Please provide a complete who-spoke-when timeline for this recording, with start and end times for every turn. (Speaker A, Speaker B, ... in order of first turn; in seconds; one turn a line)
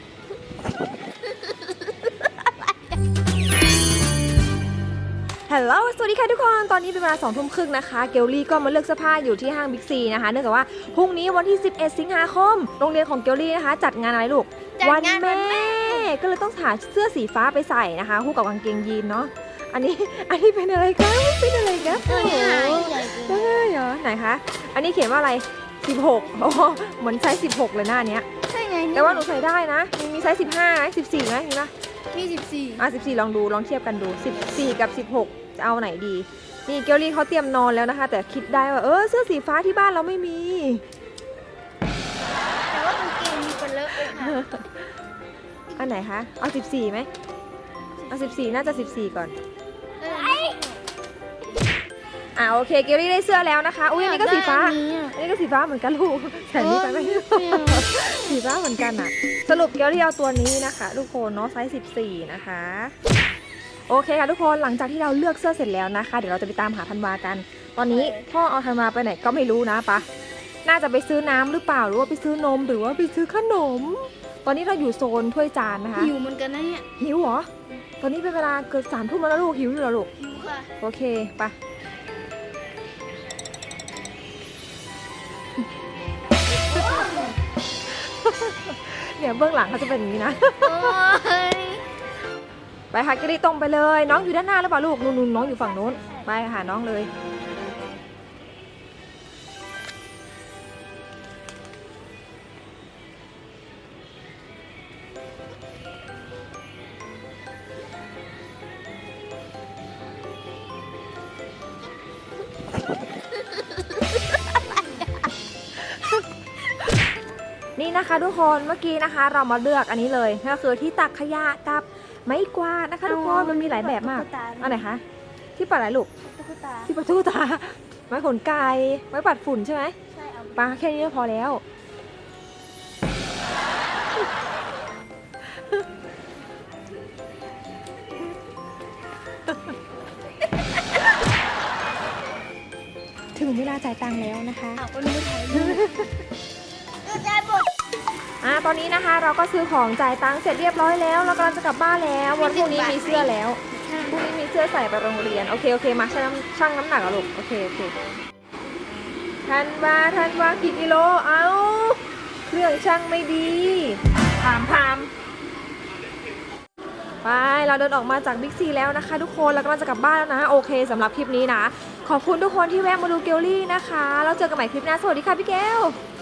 Speaker A: 5.5-28.3
Speaker B: 14.8-16.1
Speaker B: 21.8-23.7
Speaker B: 28.5-29.3
Speaker A: 28.9-31.7
Speaker B: 32.1-32.9
Speaker A: 32.8-40.8
Speaker B: 42.7-44.4
Speaker A: 43.9-44.8
Speaker A: 45.7-47.1
Speaker B: 48.1-48.5
Speaker A: 48.1-49.3
Speaker B: 50.0-50.8
Speaker A: 52.4-62.9
Speaker B: 53.9-55.2
Speaker B: 56.5-58.4
Speaker A: 63.9-70.0
Speaker B: 67.9-68.3
Speaker A: 70.6-76.1
Speaker B: 75.9-76.9
Speaker A: 77.0-80.1
Speaker B: 80.2-80.7
Speaker A: 80.8-81.5
Speaker A: 86.6-87.3
Speaker B: 86.7-87.3
Speaker A: 87.9-91.0
Speaker B: 90.6-91.8
Speaker A: 92.9-97.1
Speaker B: 95.4-96.3
Speaker B: 113.7-115.1
Speaker A: 115.8-116.2
Speaker A: 117.8-125.0
Speaker B: 123.0-124.8
Speaker A: 125.6-126.1
Speaker B: 126.2-126.9
Speaker A: 126.9-129.9
Speaker B: 130.1-130.8
Speaker A: 130.6-131.6
Speaker A: 135.4-135.8
Speaker A: 143.3-144.8
Speaker B: 144.8-146.0
Speaker A: 145.5-146.1
Speaker B: 147.1-147.7
Speaker A: 148.4-157.9
Speaker B: 152.4-154.2
Speaker A: 159.4-165.1
Speaker A: 167.2-175.9